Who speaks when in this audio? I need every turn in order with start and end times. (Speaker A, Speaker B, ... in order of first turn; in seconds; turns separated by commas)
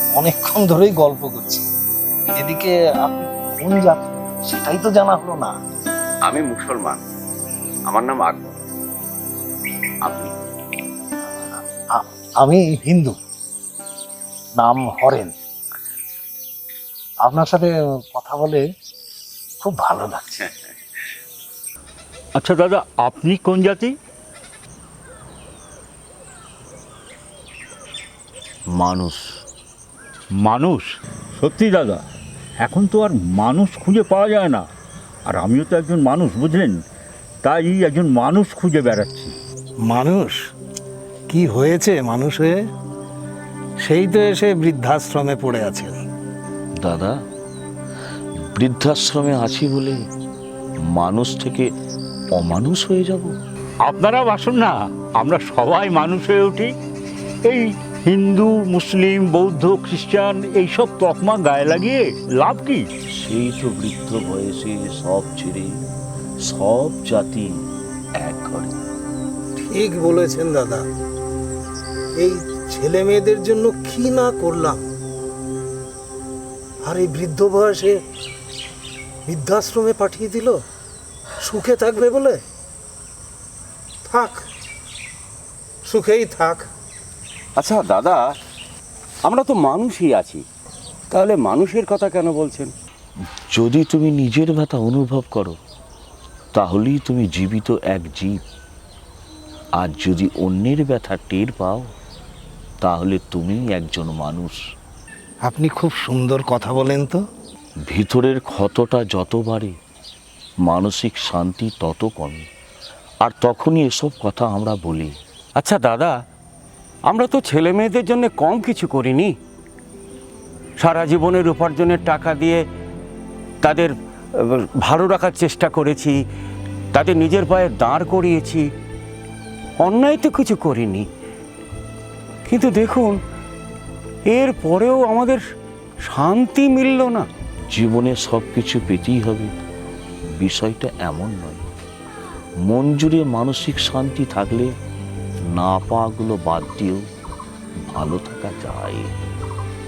Speaker A: 0.1-1.7, Speaker A: 2.3-5.5, Speaker B: 6.3-7.0, Speaker B: 7.9-8.6, Speaker B: 10.0-10.3, Speaker A: 11.9-13.2, Speaker A: 14.6-15.3, Speaker A: 17.2-18.6, Speaker A: 19.6-20.6, Speaker C: 22.4-24.0, Speaker D: 28.7-29.4, Speaker C: 30.4-32.0, Speaker C: 32.6-34.7, Speaker C: 35.3-36.8, Speaker C: 37.4-39.4, Speaker A: 39.9-40.4, Speaker A: 41.3-42.6, Speaker A: 43.8-46.0, Speaker D: 46.8-47.2, Speaker D: 48.5-50.0, Speaker D: 50.9-51.7, Speaker D: 52.4-53.4, Speaker C: 53.9-56.7, Speaker C: 57.5-62.9, Speaker D: 63.2-65.7, Speaker D: 66.4-67.6, Speaker D: 68.2-68.8, Speaker A: 69.7-70.9, Speaker A: 72.2-74.8, Speaker A: 76.8-78.0, Speaker A: 79.3-80.6, Speaker A: 81.4-82.4, Speaker A: 84.0-84.4, Speaker A: 85.9-86.7, Speaker B: 87.6-88.2, Speaker B: 89.3-90.4, Speaker B: 91.1-92.7, Speaker D: 93.3-95.6, Speaker D: 96.5-98.4, Speaker D: 99.8-101.9, Speaker D: 102.8-104.6, Speaker A: 105.5-107.2, Speaker D: 107.9-109.7, Speaker D: 110.7-112.5, Speaker D: 113.2-115.2, Speaker B: 115.6-116.1, Speaker B: 117.1-119.3, Speaker B: 120.8-122.6, Speaker B: 123.6-126.2, Speaker B: 126.9-128.7, Speaker B: 129.8-131.1, Speaker B: 132.5-133.2, Speaker B: 134.3-135.4, Speaker B: 136.1-137.3, Speaker D: 137.7-139.5, Speaker D: 140.3-141.6, Speaker D: 142.7-144.7, Speaker D: 145.5-147.0, Speaker D: 147.9-149.1